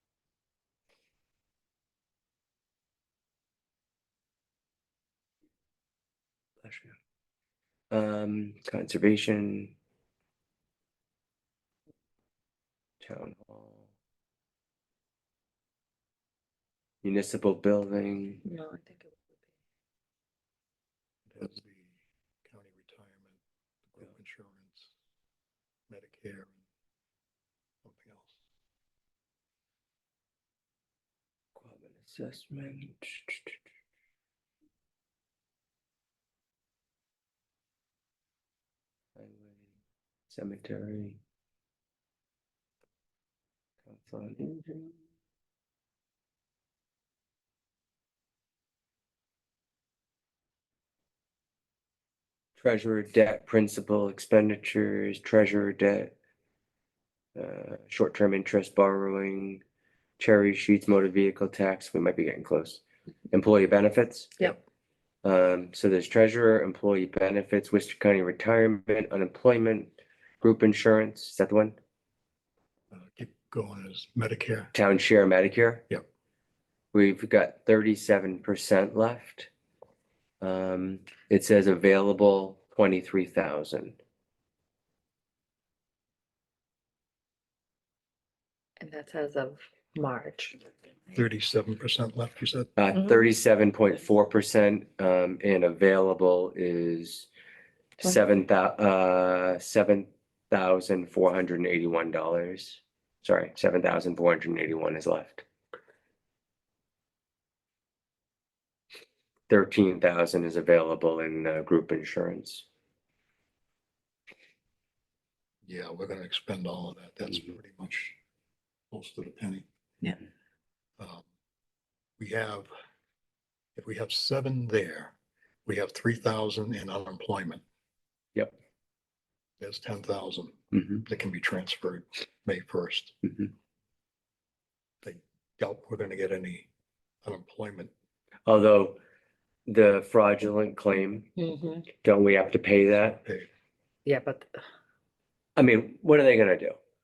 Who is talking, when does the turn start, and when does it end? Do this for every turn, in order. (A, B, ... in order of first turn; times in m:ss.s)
0:06.6-0:06.9 A
0:07.9-0:09.7 A
0:13.0-0:13.9 A
0:17.0-0:18.4 A
0:18.4-0:19.5 B
0:21.3-0:24.9 C
0:25.9-0:26.6 C
0:27.8-0:28.4 C
0:31.6-0:33.6 A
0:39.2-0:39.7 A
0:40.3-0:41.2 A
0:43.9-0:44.8 A
0:52.6-0:56.1 A
0:57.4-0:59.6 A
1:00.2-1:04.5 A
1:05.2-1:11.8 A
1:12.9-1:14.7 C
1:14.7-1:15.8 A
1:16.9-1:19.5 A
1:20.4-1:24.0 A
1:28.8-1:30.6 B
1:31.1-1:32.7 C
1:32.8-1:37.3 A
1:38.0-1:45.4 A
1:49.5-1:52.6 A
1:55.7-1:58.2 C
1:58.9-1:59.6 C
2:01.0-2:01.3 C
2:02.2-2:02.7 C
2:03.8-2:05.1 C
2:05.7-2:07.6 C
2:09.6-2:13.3 C
2:15.0-2:16.7 C
2:17.2-2:17.9 C
2:18.5-2:19.0 A
2:19.7-2:21.3 A
2:21.4-2:21.9 B
2:22.0-2:23.2 A
2:23.1-2:23.5 C
2:24.1-2:24.5 B
2:25.6-2:26.8 A